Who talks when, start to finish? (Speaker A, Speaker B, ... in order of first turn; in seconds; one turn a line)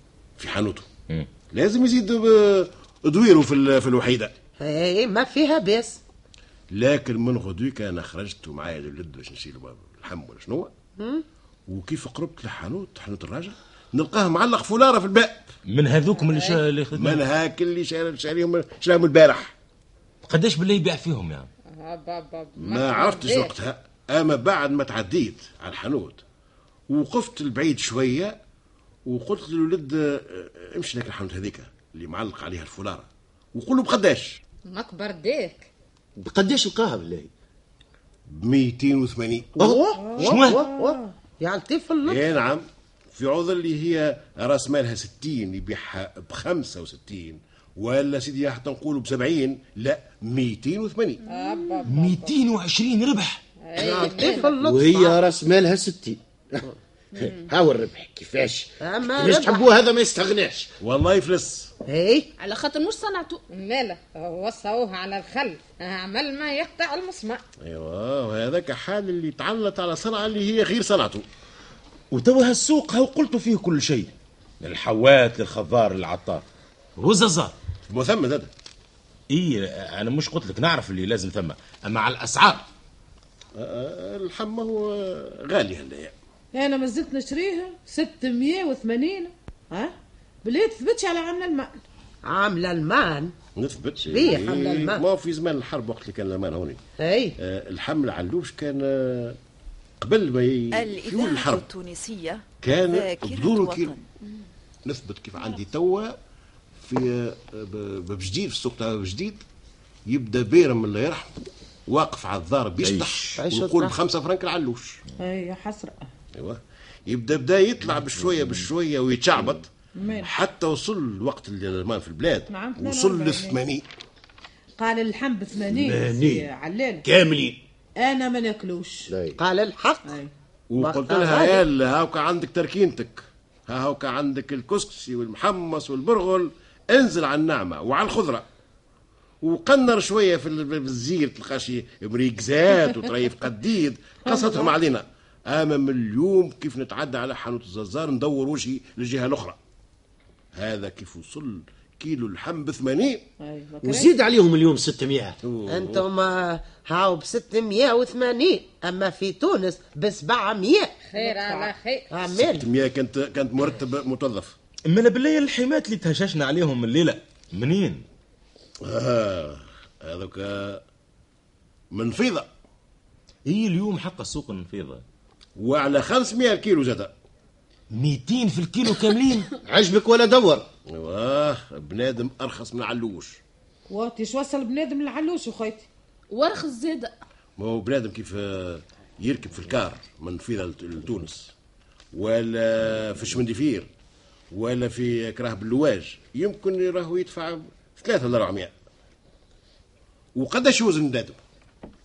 Speaker A: 0.4-0.9
Speaker A: 1.5-4.3
Speaker B: 4.6-6.0
Speaker A: 6.7-10.7
Speaker B: 11.0-11.2
Speaker A: 11.7-15.5
Speaker C: 15.7-17.2
Speaker D: 16.2-16.6
Speaker A: 16.9-19.5
Speaker C: 20.2-21.5
Speaker D: 21.6-23.6
Speaker A: 22.6-26.2
Speaker A: 26.9-28.4
Speaker A: 29.1-34.4
Speaker D: 34.7-35.7
Speaker E: 36.2-37.3
Speaker A: 38.3-39.7
Speaker B: 39.6-42.2
Speaker E: 39.6-39.9
Speaker F: 40.0-41.1
Speaker C: 40.2-40.6
Speaker A: 42.0-51.2
Speaker G: 51.2-51.9
Speaker D: 51.3-52.4
Speaker C: 51.9-53.4
Speaker D: 53.6-54.5
Speaker B: 53.8-55.2
Speaker E: 54.6-56.6
Speaker E: 57.2-60.7
Speaker B: 58.8-59.7
Speaker A: 60.8-61.7
Speaker B: 61.9-62.3
Speaker G: 62.4-63.4
Speaker D: 63.5-67.4
Speaker A: 67.6-71.3
Speaker C: 72.1-76.4
Speaker C: 77.0-77.5
Speaker A: 77.9-78.5
Speaker C: 79.3-82.6
Speaker A: 83.5-86.1
Speaker F: 86.5-91.8
Speaker B: 92.2-93.3
Speaker A: 93.6-96.8
Speaker B: 94.0-95.0
Speaker F: 94.3-94.6
Speaker B: 97.0-97.4
Speaker A: 97.4-99.4
Speaker A: 100.0-101.7
Speaker H: 100.7-104.0
Speaker A: 102.6-103.9
Speaker A: 104.8-106.2
Speaker A: 106.8-109.4
Speaker A: 110.1-115.0
Speaker C: 112.8-113.4
Speaker B: 113.4-114.0
Speaker F: 115.2-116.1
Speaker A: 116.3-119.7
Speaker C: 118.2-118.6
Speaker F: 120.0-120.3
Speaker A: 120.2-123.8
Speaker F: 122.5-123.6
Speaker F: 124.8-127.1
Speaker E: 125.7-126.5
Speaker E: 127.0-127.6
Speaker F: 128.0-129.1
Speaker E: 129.1-129.4
Speaker B: 129.4-130.2
Speaker F: 130.1-130.3
Speaker A: 130.7-138.4
Speaker B: 130.8-131.6
Speaker A: 139.4-149.6
Speaker F: 144.3-144.7
Speaker A: 150.6-153.2
Speaker F: 153.4-154.1
Speaker E: 153.8-155.4
Speaker A: 155.4-156.1
Speaker B: 155.7-160.9
Speaker D: 161.0-162.1
Speaker F: 161.1-161.7
Speaker B: 162.1-162.7
Speaker A: 162.3-164.6
Speaker C: 164.9-168.0
Speaker A: 168.8-170.8
Speaker A: 171.9-172.5
Speaker C: 173.4-175.0
Speaker A: 175.6-177.1
Speaker C: 177.9-179.5
Speaker E: 179.6-180.7
Speaker A: 180.9-183.4
Speaker F: 183.9-185.9
Speaker G: 186.3-187.1
Speaker A: 187.6-191.5
Speaker A: 192.1-193.9
Speaker A: 194.5-198.7
Speaker A: 200.3-201.4